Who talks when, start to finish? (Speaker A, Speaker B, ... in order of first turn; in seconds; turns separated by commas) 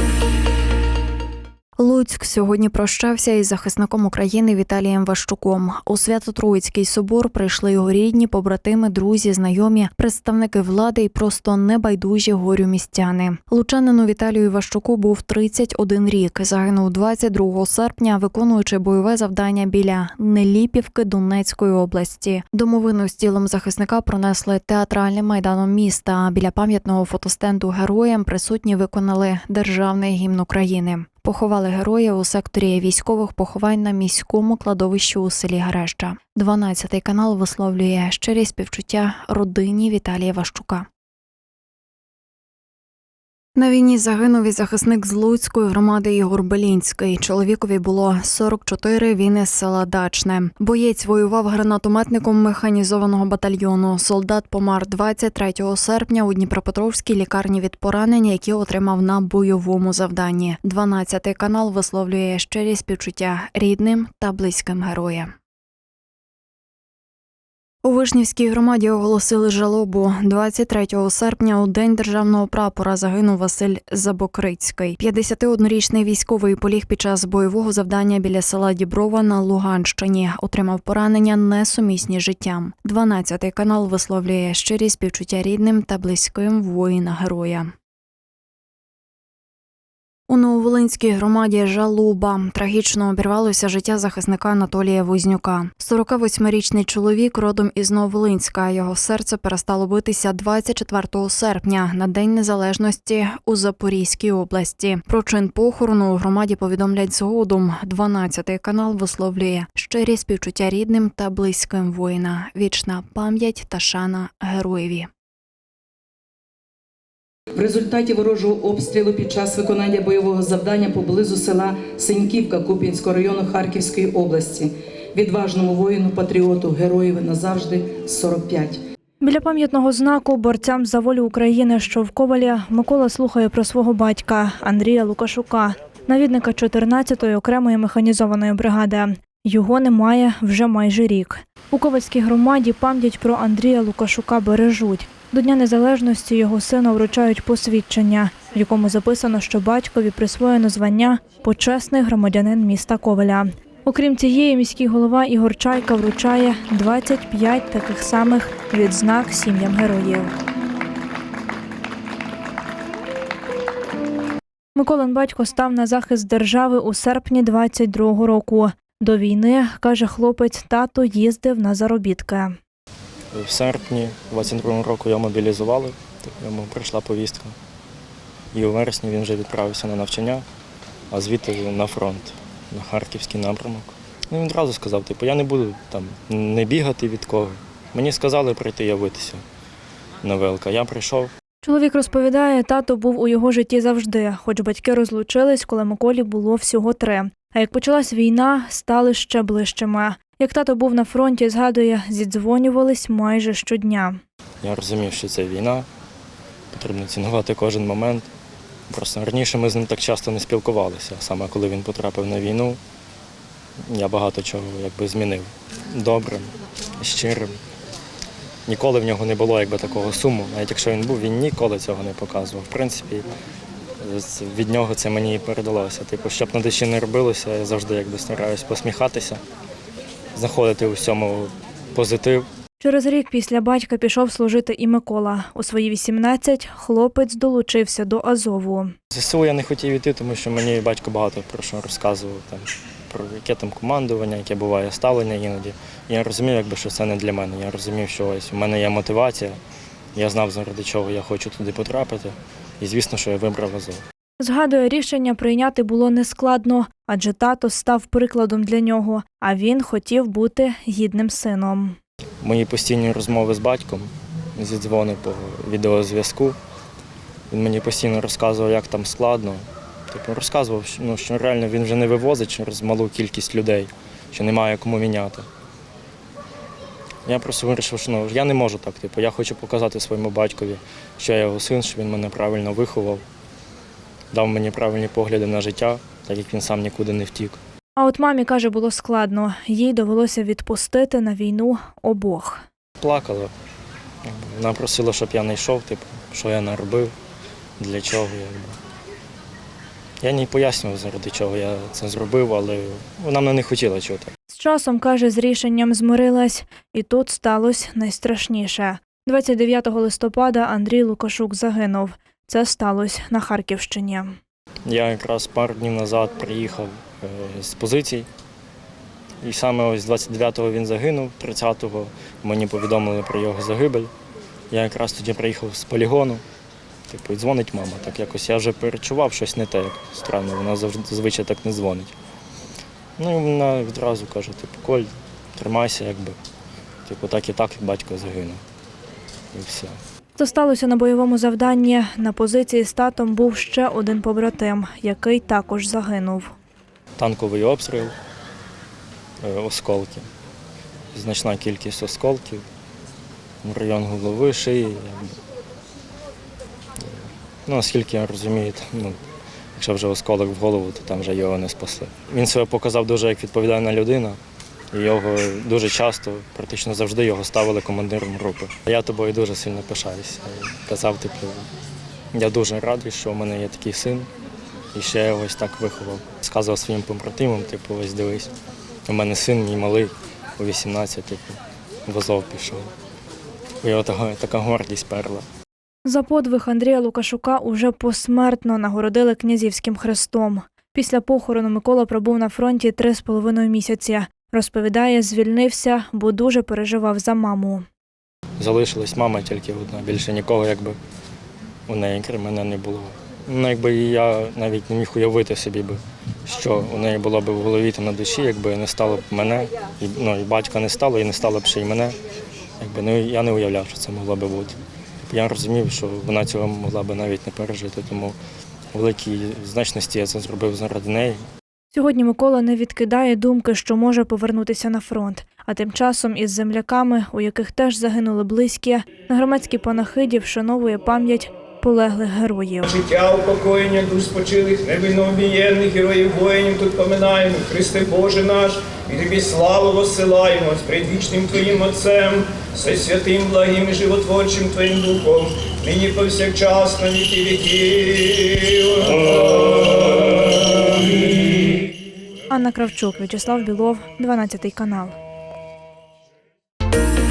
Speaker A: 1.8-40.9, Speaker A: 43.5-65.3, Speaker A: 67.8-87.7, Speaker A: 90.3-115.1, Speaker B: 117.5-128.8, Speaker C: 129.2-160.3, Speaker C: 164.8-172.6, Speaker D: 173.3-177.5, Speaker D: 178.5-180.4, Speaker D: 181.1-189.4, Speaker D: 190.2-191.3, Speaker C: 191.6-204.2, Speaker D: 204.6-205.9, Speaker D: 206.7-208.3, Speaker D: 208.9-212.8, Speaker D: 213.9-217.6, Speaker D: 218.7-223.3, Speaker D: 224.0-229.4, Speaker D: 230.3-232.4, Speaker C: 232.8-238.9, Speaker D: 239.1-249.6, Speaker D: 250.1-254.0, Speaker C: 254.4-262.0, Speaker D: 262.4-266.6, Speaker D: 267.5-275.5, Speaker D: 277.2-283.2, Speaker D: 284.3-287.6, Speaker C: 288.0-292.6, Speaker D: 293.0-293.5, Speaker D: 294.2-297.1, Speaker D: 297.8-298.8, Speaker D: 300.2-304.3, Speaker C: 304.5-314.4, Speaker D: 314.9-318.3, Speaker D: 319.4-324.1, Speaker D: 324.7-326.4, Speaker D: 327.1-332.1, Speaker D: 333.2-336.4, Speaker D: 337.1-338.6, Speaker D: 339.5-340.0, Speaker C: 340.4-346.5, Speaker D: 347.2-348.1, Speaker D: 349.4-350.3, Speaker D: 351.1-352.6, Speaker D: 353.6-355.4, Speaker D: 357.0-359.2, Speaker D: 359.8-364.4, Speaker D: 364.9-371.7, Speaker D: 372.3-374.3, Speaker D: 374.9-378.5, Speaker D: 379.1-382.9, Speaker D: 383.8-385.4, Speaker C: 386.0-397.8, Speaker D: 398.6-401.0, Speaker D: 401.9-412.2, Speaker D: 412.8-418.4, Speaker D: 418.9-421.4, Speaker C: 421.9-432.9, Speaker E: 432.8-451.7, Speaker C: 452.5-455.1